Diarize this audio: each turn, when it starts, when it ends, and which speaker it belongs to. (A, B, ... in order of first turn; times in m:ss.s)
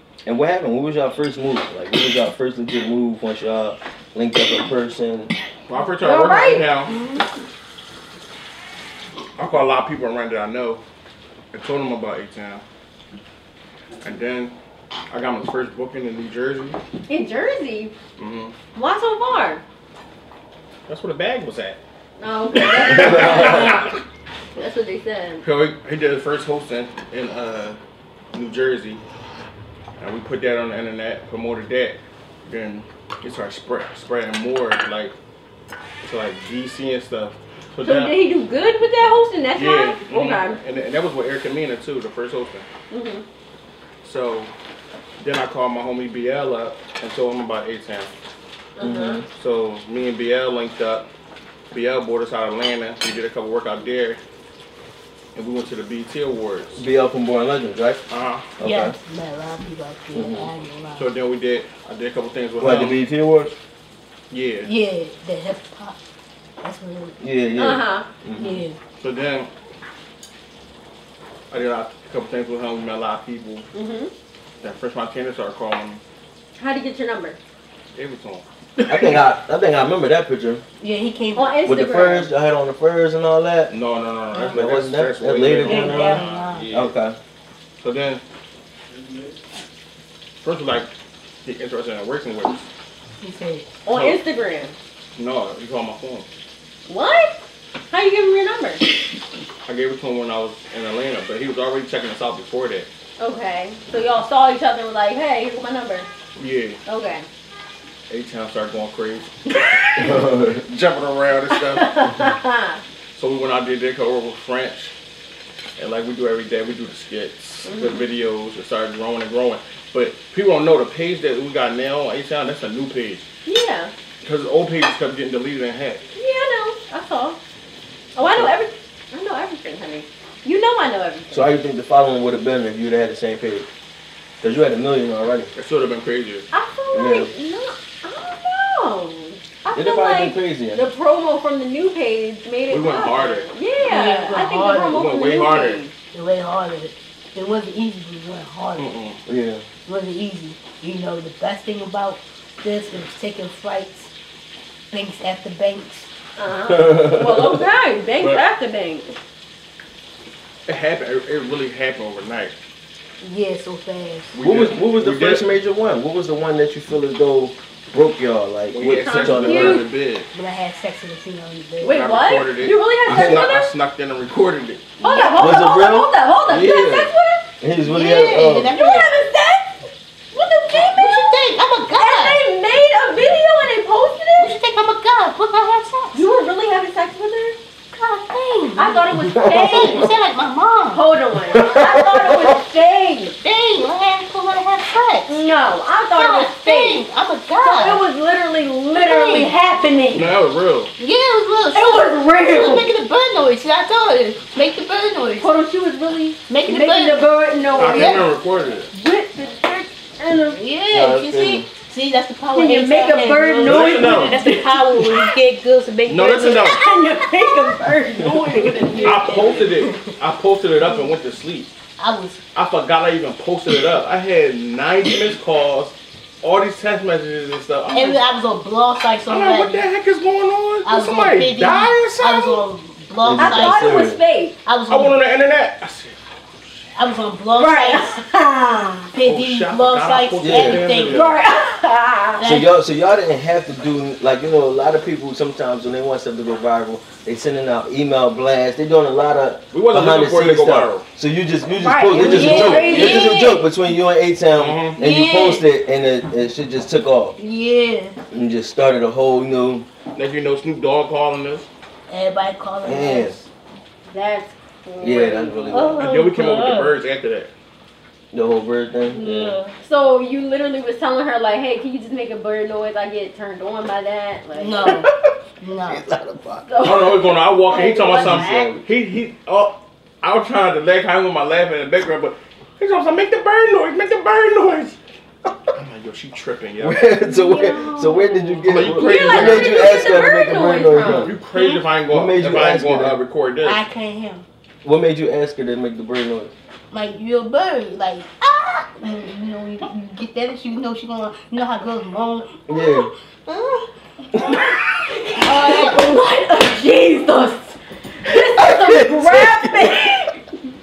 0:00.2-0:05.3 A
0:05.7-0:07.0 B
0:06.0-0:06.7 C
0:06.9-0:07.2 D
0:09.4-0:10.8 B
0:11.5-0:12.6 B
0:14.0-0:14.5 B
0:15.1-0:16.8 B
0:17.1-0:17.9 C
0:18.2-0:18.5 B
0:18.7-0:19.6 C
0:20.9-0:21.8 B
0:22.2-0:23.9 C
0:22.5-0:24.0 B
0:24.5-0:25.4 C
0:25.4-0:27.8 B
0:28.3-0:29.0 B
0:30.0-0:35.1 B
0:36.0-0:38.2 B
0:37.8-0:40.6 C
0:39.5-0:42.7 B
0:42.9-0:43.2 C
0:44.0-0:44.5 B
0:45.2-0:48.1 B
0:48.8-0:49.2 C
0:48.8-0:49.2 A
0:49.3-0:51.1 B
0:51.7-0:54.2 B
0:55.3-0:56.8 B
0:56.8-0:58.0 A
0:58.1-0:58.5 B
0:58.6-0:59.0 A
0:58.6-1:01.1 D
1:00.1-1:00.5 A
1:01.0-1:03.0 B
1:02.6-1:03.5 A
1:04.3-1:04.7 B
1:04.6-1:06.0 D
1:06.6-1:07.2 D
1:07.2-1:08.6 A
1:07.6-1:08.1 C
1:08.4-1:08.8 D
1:09.0-1:09.5 B
1:11.5-1:13.7 B
1:13.7-1:14.1 C
1:14.6-1:16.0 B
1:16.6-1:17.4 C
1:17.9-1:19.3 B
1:18.9-1:20.6 A
1:20.8-1:21.6 D
1:21.3-1:22.3 C
1:21.6-1:23.7 A
1:23.7-1:26.9 B
1:24.5-1:27.2 A
1:25.6-1:26.7 D
1:27.8-1:28.2 B
1:30.4-1:30.9 B
1:31.4-1:32.7 B
1:33.2-1:33.7 D
1:33.8-1:34.8 C
1:33.9-1:34.2 B
1:35.2-1:36.2 B
1:36.8-1:37.4 C
1:37.9-1:38.8 C
1:39.6-1:42.9 B
1:43.2-1:46.1 C
1:46.4-1:46.8 B
1:46.8-1:47.2 C
1:48.1-1:52.1 B
1:50.0-1:50.6 A
1:51.5-1:52.8 C
1:53.1-1:54.9 B
1:55.8-2:03.2 B
1:57.6-1:58.0 C
2:03.4-2:03.9 C
2:04.2-2:06.0 B
2:06.2-2:07.4 C
2:08.1-2:11.5 C
2:08.2-2:08.5 A
2:11.3-2:13.7 A
2:14.4-2:15.5 A
2:15.5-2:16.5 B
2:16.5-2:25.9 C
2:16.9-2:17.3 A
2:19.7-2:20.8 A
2:22.7-2:23.5 B
2:23.8-2:25.0 D
2:24.9-2:25.8 B
2:26.1-2:29.0 D
2:28.8-2:29.2 B
2:29.2-2:29.6 A
2:29.8-2:34.1 D
2:34.9-2:36.1 D
2:36.4-2:39.1 C
2:36.7-2:37.6 A
2:40.7-2:42.5 B
2:43.2-2:44.4 D
2:44.3-2:45.4 B
2:44.4-2:49.9 A
2:48.7-2:50.3 B
2:48.8-2:49.9 C
2:50.3-2:52.1 D
2:51.8-2:53.7 C
2:51.8-2:54.9 B
2:53.1-2:53.5 A
2:55.0-2:55.6 D
2:55.0-2:57.5 C
2:55.4-2:58.7 A
2:57.8-2:59.1 D
2:58.7-3:01.4 C
3:00.6-3:02.4 D
3:01.9-3:04.5 C
3:04.4-3:06.4 D
3:06.1-3:07.6 C
3:07.9-3:11.1 D
3:08.8-3:10.1 C
3:09.2-3:10.1 A
3:10.9-3:13.3 C
3:11.5-3:12.5 A
3:13.4-3:15.4 D
3:15.2-3:17.0 C
3:16.1-3:18.0 D
3:17.6-3:20.3 C
3:18.9-3:19.6 D
3:20.1-3:20.9 B
3:21.0-3:25.5 D
3:21.7-3:22.9 C
3:25.4-3:28.3 C
3:26.5-3:28.2 D
3:27.8-3:28.9 B
3:28.9-3:30.6 C
3:30.5-3:40.1 D
3:30.9-3:31.7 A
3:32.5-3:35.2 C
3:33.6-3:34.4 B
3:36.0-3:36.8 B
3:36.6-3:39.4 C
3:39.0-3:41.7 B
3:42.0-3:42.4 D
3:42.5-3:48.2 B
3:47.9-3:49.8 D
3:49.3-3:52.6 B
3:50.8-3:54.1 D
3:53.2-3:54.2 A
3:53.4-3:54.6 C
3:54.6-3:55.2 D
3:54.9-3:56.9 B
3:56.9-3:58.2 D
3:57.6-3:59.1 C
3:59.1-4:01.3 D
3:59.2-4:01.4 B
4:00.4-4:01.0 A
4:01.1-4:02.4 C
4:02.4-4:02.7 D
4:02.4-4:17.4 A
4:09.7-4:11.0 B
4:11.8-4:13.6 C
4:12.1-4:13.6 D
4:14.5-4:15.0 B
4:15.0-4:15.6 D
4:17.4-4:18.2 D
4:18.3-4:19.9 A
4:20.1-4:21.7 B
4:22.1-4:23.4 D
4:22.8-4:23.4 A
4:24.1-4:25.9 C
4:25.0-4:26.1 A
4:25.7-4:27.0 D
4:26.0-4:27.5 B
4:28.3-4:29.6 A
4:29.1-4:29.7 D
4:29.8-4:35.0 C
4:34.5-4:35.1 D
4:35.6-4:36.0 D
4:35.8-4:36.8 A
4:36.6-4:38.5 C
4:36.8-4:45.0 B
4:37.7-4:38.7 D
4:38.1-4:38.8 A
4:45.7-4:47.1 B
4:46.8-4:51.3 A
4:47.2-4:48.6 D
4:47.8-4:51.3 C
4:48.6-4:50.0 B
4:50.9-4:53.8 B
4:51.5-4:51.9 D
4:52.1-4:53.2 A
4:53.6-4:54.4 D
4:54.8-4:56.5 A
4:56.9-5:04.7 D
5:02.7-5:03.1 A
5:05.3-5:06.1 D
5:05.3-5:10.4 C
5:08.2-5:10.1 A